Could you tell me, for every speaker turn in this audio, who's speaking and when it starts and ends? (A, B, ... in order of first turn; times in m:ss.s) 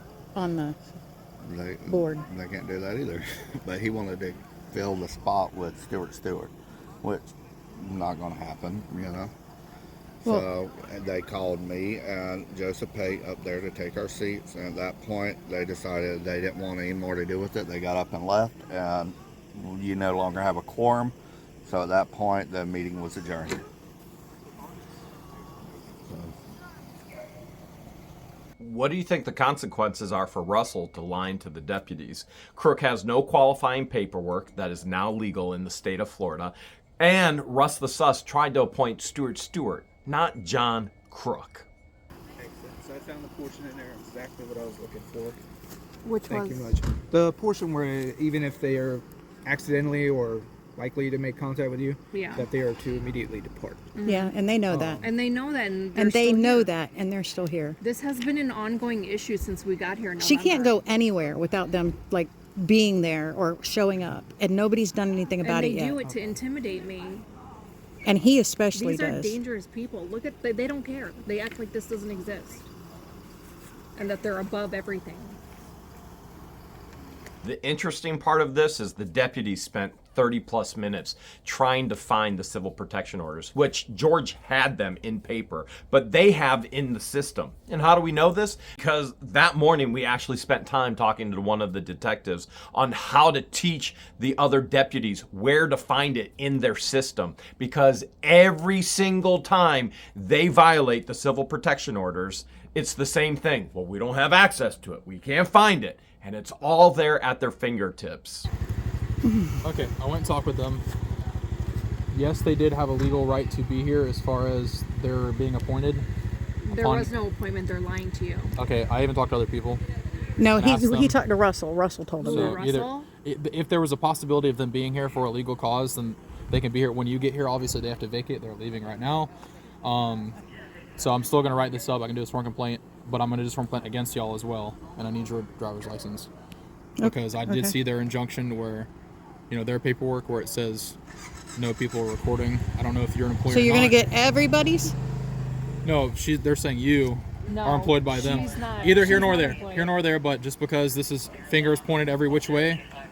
0:00.3-0:00.8 A
0:01.4-0:09.3 B
0:01.8-0:02.3 A
0:10.2-0:23.6 B
0:26.1-0:26.3 B
0:28.6-0:41.7 C
0:42.4-0:45.4 D
0:46.0-0:46.8 E
0:46.3-0:53.9 D
0:52.1-0:52.5 E
0:53.9-0:54.4 E
0:54.0-0:55.0 A
0:54.7-0:55.0 D
0:55.0-0:56.7 E
0:55.9-0:57.8 A
0:57.8-1:00.8 E
1:00.2-1:06.0 A
1:05.4-1:07.2 E
1:08.0-1:09.4 A
1:08.7-1:12.7 E
1:14.0-1:15.4 E
1:17.4-1:48.5 C
1:49.2-1:49.6 A
1:49.6-1:50.8 F
1:52.1-1:56.1 F
1:56.6-1:58.6 E
1:56.7-1:57.1 F
1:58.6-1:59.8 F
2:00.4-2:02.6 A
2:00.5-2:01.2 F
2:02.2-2:03.1 E
2:02.2-2:09.3 F
2:09.8-2:10.4 F
2:11.0-2:16.3 F
2:17.0-2:17.7 A
2:17.0-2:18.9 F
2:19.5-2:21.0 F
2:21.6-2:24.0 F
2:23.5-2:25.0 A
2:25.8-2:32.8 F
2:27.5-2:29.9 E